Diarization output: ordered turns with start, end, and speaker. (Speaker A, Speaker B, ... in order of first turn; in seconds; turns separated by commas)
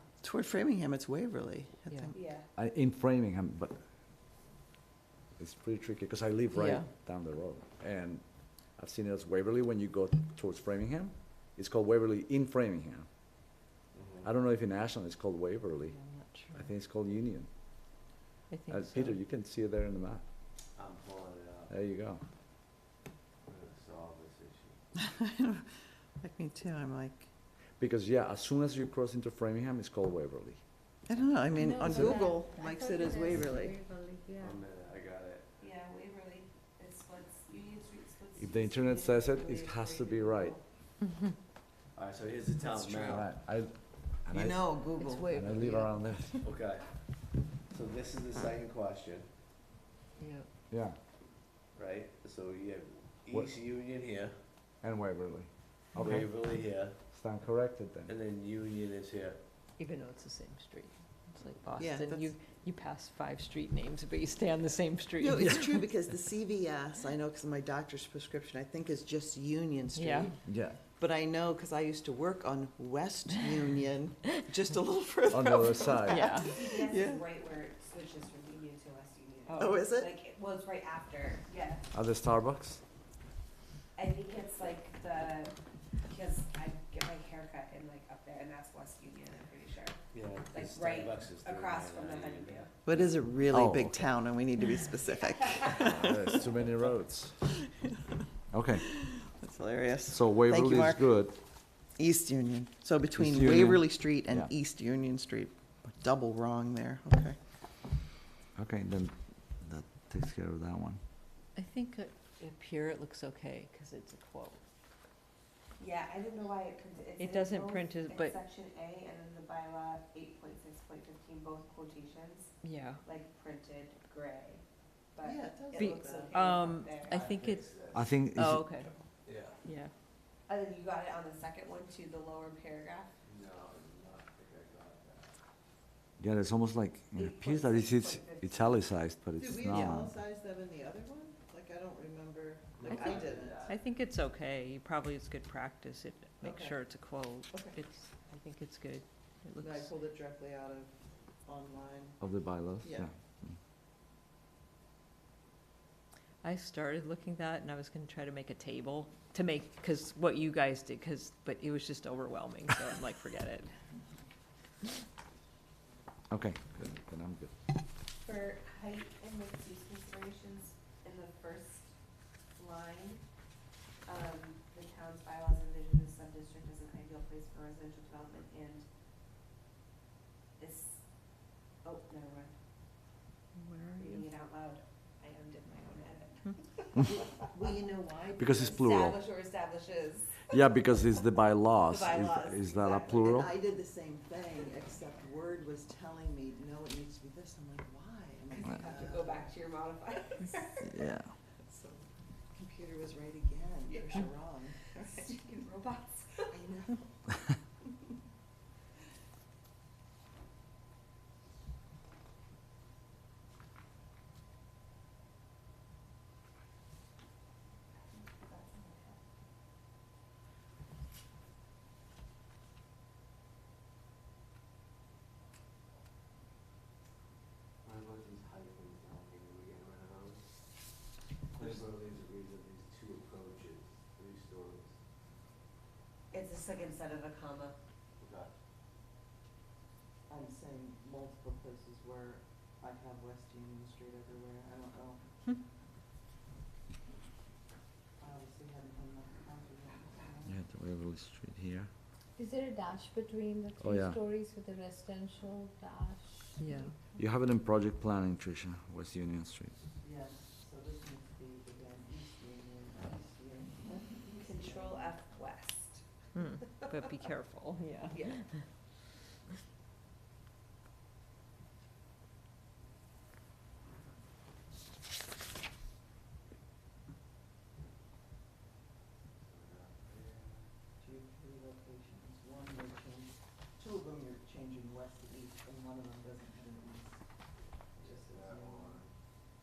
Speaker A: 0.2-2.2, Speaker B: 2.1-2.5, Speaker C: 2.5-3.8, Speaker C: 5.4-8.2, Speaker D: 6.5-6.9, Speaker C: 8.7-13.1, Speaker E: 13.9-14.3, Speaker C: 14.2-15.9, Speaker D: 15.9-16.7, Speaker C: 16.5-17.5, Speaker D: 18.5-19.2, Speaker C: 18.7-20.2, Speaker E: 20.7-21.7, Speaker C: 21.7-22.2, Speaker E: 23.5-24.8, Speaker A: 24.9-25.7, Speaker A: 26.2-27.3, Speaker C: 27.8-30.6, Speaker A: 31.1-33.7, Speaker F: 31.5-34.6, Speaker E: 34.4-35.6, Speaker B: 35.6-40.6, Speaker C: 38.4-40.5, Speaker E: 41.9-43.3, Speaker A: 42.7-43.2, Speaker C: 43.1-43.7, Speaker C: 44.2-44.5, Speaker A: 44.3-45.8, Speaker D: 45.0-45.8, Speaker C: 45.3-46.4, Speaker E: 46.4-46.9, Speaker E: 47.7-49.3, Speaker D: 50.2-50.5, Speaker C: 50.7-51.0, Speaker E: 51.8-54.4, Speaker C: 54.8-56.3, Speaker E: 55.9-57.0, Speaker C: 57.1-58.1, Speaker E: 58.0-59.4, Speaker D: 59.8-65.8, Speaker A: 61.8-62.3, Speaker A: 65.2-77.3, Speaker D: 69.9-70.3, Speaker C: 70.5-70.8, Speaker C: 75.3-76.2, Speaker D: 76.0-76.5, Speaker B: 76.4-81.8, Speaker D: 79.5-79.8, Speaker A: 79.6-80.1, Speaker C: 81.9-82.8, Speaker B: 84.0-85.5, Speaker B: 86.1-90.0, Speaker E: 90.1-93.1, Speaker B: 90.5-92.7, Speaker A: 92.8-96.5, Speaker C: 93.5-94.0, Speaker C: 95.7-97.3, Speaker A: 97.4-98.2, Speaker C: 98.5-98.8, Speaker A: 98.7-101.2, Speaker C: 100.1-101.3, Speaker A: 102.0-107.4, Speaker C: 103.1-104.5, Speaker C: 108.5-111.0, Speaker D: 111.5-114.6, Speaker B: 115.8-122.5, Speaker D: 117.2-118.4, Speaker D: 122.6-123.0, Speaker B: 123.0-124.6, Speaker B: 125.1-127.2, Speaker A: 125.2-126.3, Speaker D: 125.8-128.9, Speaker E: 127.0-128.3, Speaker C: 127.9-128.6, Speaker E: 129.2-129.6, Speaker D: 129.6-129.9, Speaker B: 130.5-133.1, Speaker E: 133.2-135.3, Speaker C: 136.2-140.1, Speaker B: 137.1-138.8, Speaker A: 139.4-143.7, Speaker D: 139.7-140.0, Speaker E: 142.8-143.8, Speaker D: 142.9-149.9, Speaker A: 146.4-146.8, Speaker A: 149.6-150.9, Speaker A: 151.4-152.2, Speaker C: 152.2-153.5, Speaker A: 152.8-153.1, Speaker D: 156.4-163.7, Speaker C: 166.3-167.5, Speaker B: 168.2-171.9, Speaker B: 172.6-173.2, Speaker B: 174.1-178.8, Speaker B: 180.6-181.0, Speaker B: 181.8-182.5, Speaker D: 183.6-184.2, Speaker B: 184.0-187.4, Speaker A: 187.3-188.8, Speaker C: 188.4-189.2, Speaker B: 188.4-190.5, Speaker C: 190.5-193.5, Speaker B: 191.8-193.3, Speaker A: 193.1-199.4, Speaker B: 198.5-201.1, Speaker C: 200.8-201.3, Speaker A: 201.7-202.0, Speaker A: 202.5-205.4, Speaker B: 203.9-204.2, Speaker B: 205.0-206.6, Speaker A: 206.5-207.1, Speaker B: 218.0-219.2, Speaker E: 227.8-230.5, Speaker E: 231.5-235.0, Speaker B: 236.3-237.8, Speaker E: 238.2-238.5, Speaker A: 240.3-245.2, Speaker A: 248.2-250.6, Speaker C: 250.5-251.9, Speaker F: 252.4-256.6, Speaker C: 253.8-254.1, Speaker D: 256.6-256.9, Speaker C: 257.2-259.7, Speaker A: 260.0-265.1, Speaker B: 264.3-266.0, Speaker D: 266.3-268.4, Speaker B: 268.1-268.4, Speaker E: 279.4-280.7, Speaker A: 281.0-287.2, Speaker A: 287.9-289.0, Speaker E: 288.0-289.1